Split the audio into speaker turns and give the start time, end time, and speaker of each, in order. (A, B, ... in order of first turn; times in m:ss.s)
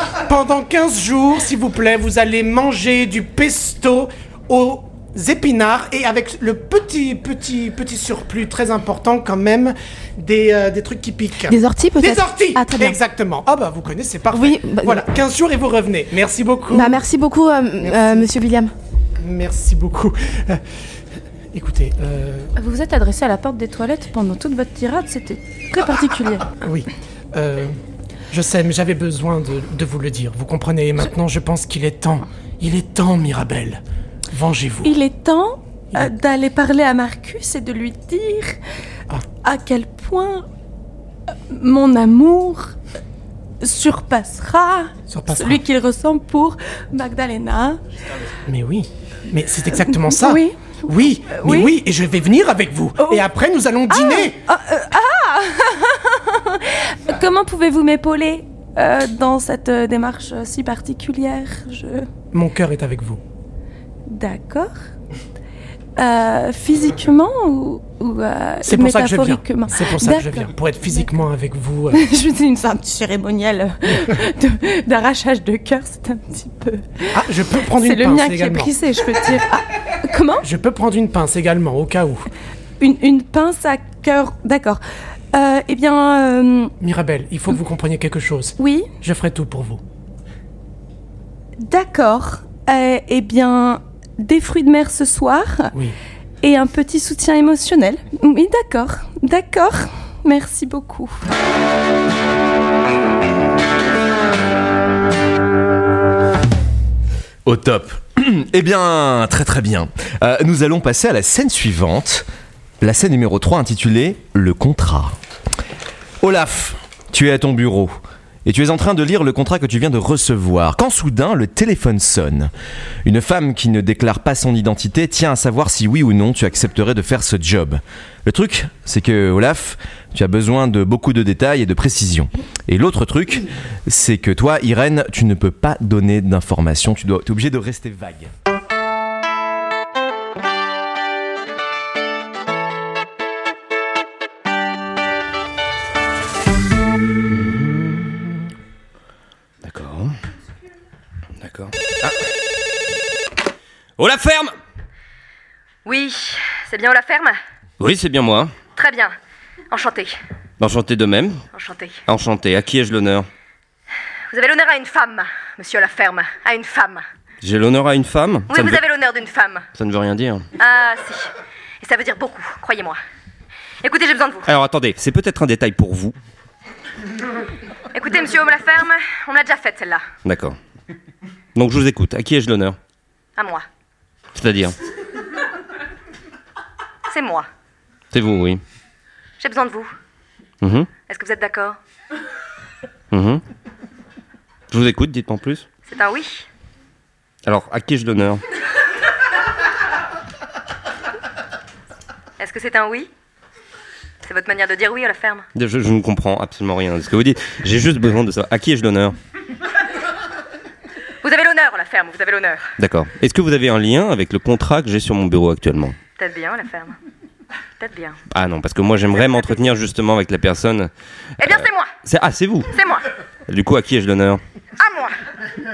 0:00.2-0:17.0 A
0:11.5-0:13.0 B
0:14.3-0:15.0 B
0:16.7-0:18.7 B
0:17.8-0:18.3 A
0:19.2-0:20.6 A
0:21.5-0:22.5 A
0:22.6-0:26.5 C
0:26.6-0:27.8 A
0:28.3-0:35.0 A
0:34.8-0:38.6 C
0:39.4-0:40.4 C
0:41.5-0:42.7 C
0:43.6-0:47.8 C
0:45.1-0:45.6 A
0:48.5-0:54.4 A
0:49.9-0:51.7 C
0:53.0-0:53.2 C
0:53.9-1:02.1 C
1:02.3-1:03.2 A
1:04.1-1:04.7 C
1:06.0-1:11.1 C
1:08.6-1:12.0 A
1:11.9-1:20.4 C
1:17.1-1:18.7 A
1:20.4-1:22.3 A
1:22.8-1:24.8 C
1:25.3-1:26.7 C
1:26.8-1:29.8 A
1:28.6-1:28.9 C
1:31.6-1:35.7 C
1:36.4-1:41.2 C
1:47.4-1:52.2 D
1:52.8-1:55.2 D
1:56.2-2:02.5 D
2:03.0-2:18.3 D
2:27.3-2:28.5 E
2:29.6-2:30.1 E
2:31.4-2:32.2 E
2:34.0-2:34.6 E
2:35.8-2:37.4 F
2:37.8-2:38.6 E
2:38.7-2:39.1 F
2:39.7-2:40.2 F
2:40.6-2:41.4 E
2:41.5-2:42.0 F
2:42.1-2:43.3 E
2:44.3-2:47.0 F
2:47.4-2:48.8 E
2:48.5-2:49.7 F
2:49.8-2:50.4 E
2:50.6-2:51.3 F
2:51.8-2:53.0 F
2:53.8-2:54.5 F
2:54.4-2:56.1 E
2:57.9-3:00.0 F
3:00.2-3:00.6 E
3:01.5-3:02.8 E
3:03.4-3:03.6 F
3:04.3-3:04.7 E
3:07.1-3:07.5 F
3:08.1-3:08.6 E
3:09.4-3:09.9 F
3:10.6-3:10.9 E
3:11.0-3:11.8 F
3:13.1-3:13.4 E
3:14.7-3:15.6 E
3:15.8-3:16.5 F
3:17.4-3:18.4 E
3:22.4-3:23.1 F
3:24.2-3:25.4 F
3:25.5-3:29.2 E
3:31.2-3:32.7 F
3:32.8-3:36.0 E
3:36.2-3:37.0 F
3:37.8-3:38.2 F
3:38.3-3:40.9 E
3:39.1-3:39.7 F
3:41.4-3:41.9 F
3:41.4-3:42.7 E
3:42.6-3:43.0 F
3:43.5-3:44.4 E
3:44.8-3:45.2 F